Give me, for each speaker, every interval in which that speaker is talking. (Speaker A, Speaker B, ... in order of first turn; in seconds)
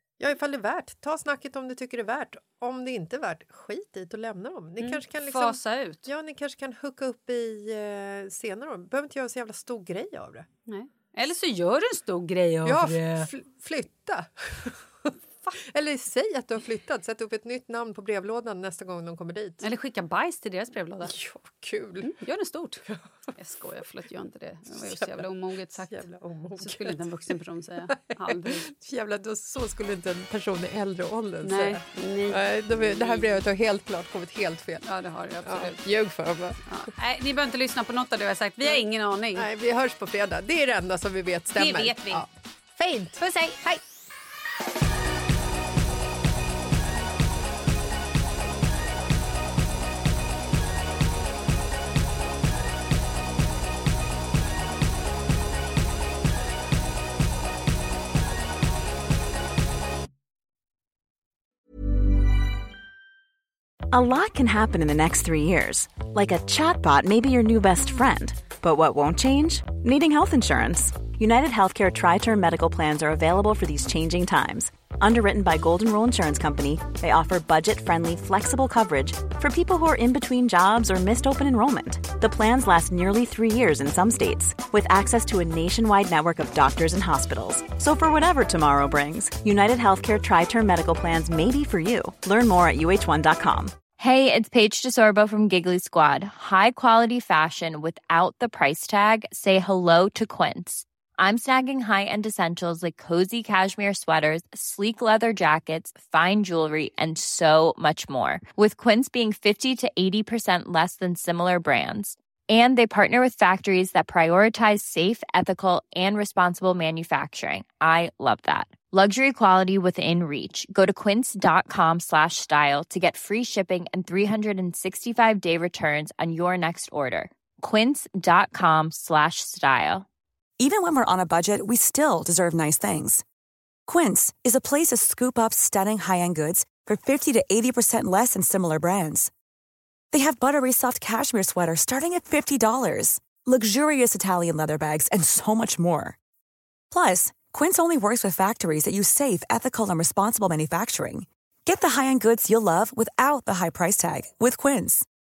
Speaker A: 0.2-10.5, 12.6-19.6, 21.0-22.1, 24.7-27.1, 27.9-34.9, 35.4-36.6, 39.4-43.8
Speaker B: 4.8-6.1, 10.7-13.3, 19.6-21.1, 22.0-26.1, 26.6-28.6, 31.4-33.4, 34.8-35.8, 36.6-39.5, 41.5-42.2, 43.2-43.6
Speaker C: 63.9-93.8
Speaker D: 94.0-130.1
Speaker E: 130.6-133.2, 133.9-139.3, 140.1-146.1, 146.9-155.0